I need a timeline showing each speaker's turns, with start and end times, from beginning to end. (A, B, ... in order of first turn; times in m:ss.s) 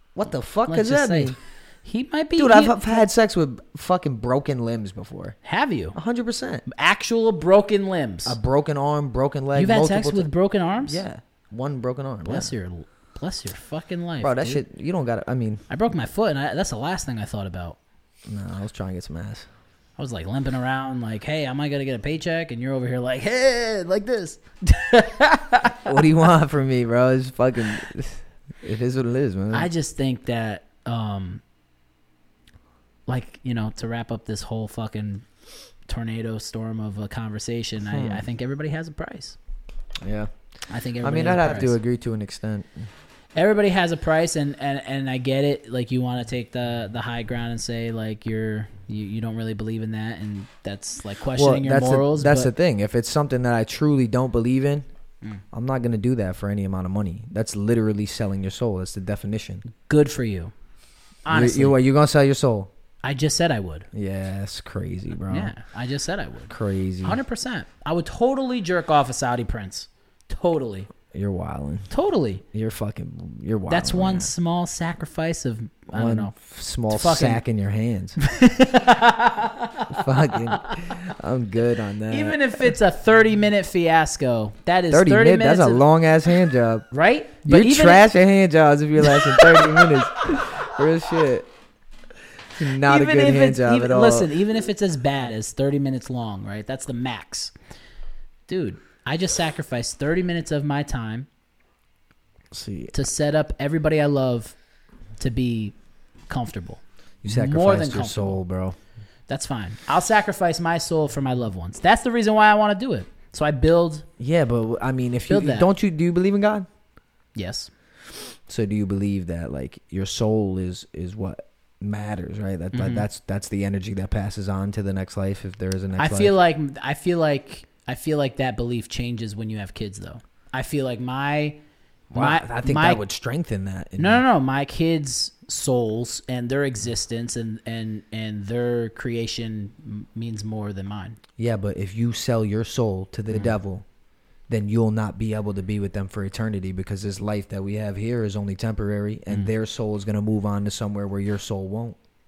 0:00.2-0:01.4 A
0:00.7-0:03.0 B
0:02.4-0:05.4 A
0:05.4-0:06.0 B
0:05.9-0:06.6 A
0:06.7-0:08.4 B
0:08.3-0:10.3 A
0:09.6-0:11.0 B
0:10.8-0:12.5 A
0:12.2-0:14.6 B
0:14.2-0:15.6 A
0:15.7-0:17.8 B
0:18.3-0:19.5 A
0:20.0-0:26.0 B
0:25.8-0:29.7 A
0:29.5-0:31.4 B
0:33.1-0:35.2 B
0:35.9-0:39.4 B
0:37.8-0:38.2 A
0:40.0-0:40.3 A
0:40.7-0:41.8 B
0:41.0-0:42.9 A
0:43.4-0:52.5 B
0:51.4-0:54.9 A
0:55.5-0:59.6 A
0:59.8-1:00.5 B
1:01.2-1:01.8 B
1:01.3-1:02.7 A
1:03.0-1:03.9 B
1:03.9-1:05.5 A
1:05.3-1:10.9 B
1:06.5-1:07.2 A
1:11.1-1:11.9 A
1:11.9-1:12.4 B
1:12.5-1:14.3 A
1:13.7-1:16.3 B
1:15.9-1:18.2 A
1:16.9-1:17.4 B
1:18.2-1:20.9 B
1:19.9-1:22.7 A
1:22.1-1:25.8 B
1:24.9-1:26.9 A
1:26.9-1:28.0 B
1:27.4-1:31.5 A
1:29.0-1:29.9 B
1:32.6-1:34.3 A
1:32.8-1:37.5 B
1:38.5-1:41.3 B
1:42.5-1:42.9 A
1:42.9-1:44.6 B
1:45.2-1:45.8 B
1:46.3-1:48.4 B
1:47.2-1:48.8 A
1:49.3-1:54.0 B
1:54.2-1:56.7 A
1:55.3-1:55.7 B
1:57.4-1:57.7 B
1:58.5-2:06.4 A
2:02.7-2:03.1 B
2:06.0-2:11.6 B
2:12.1-2:14.2 A
2:12.1-2:13.0 B
2:14.0-2:21.2 B
2:21.4-2:23.8 A
2:24.5-2:32.0 A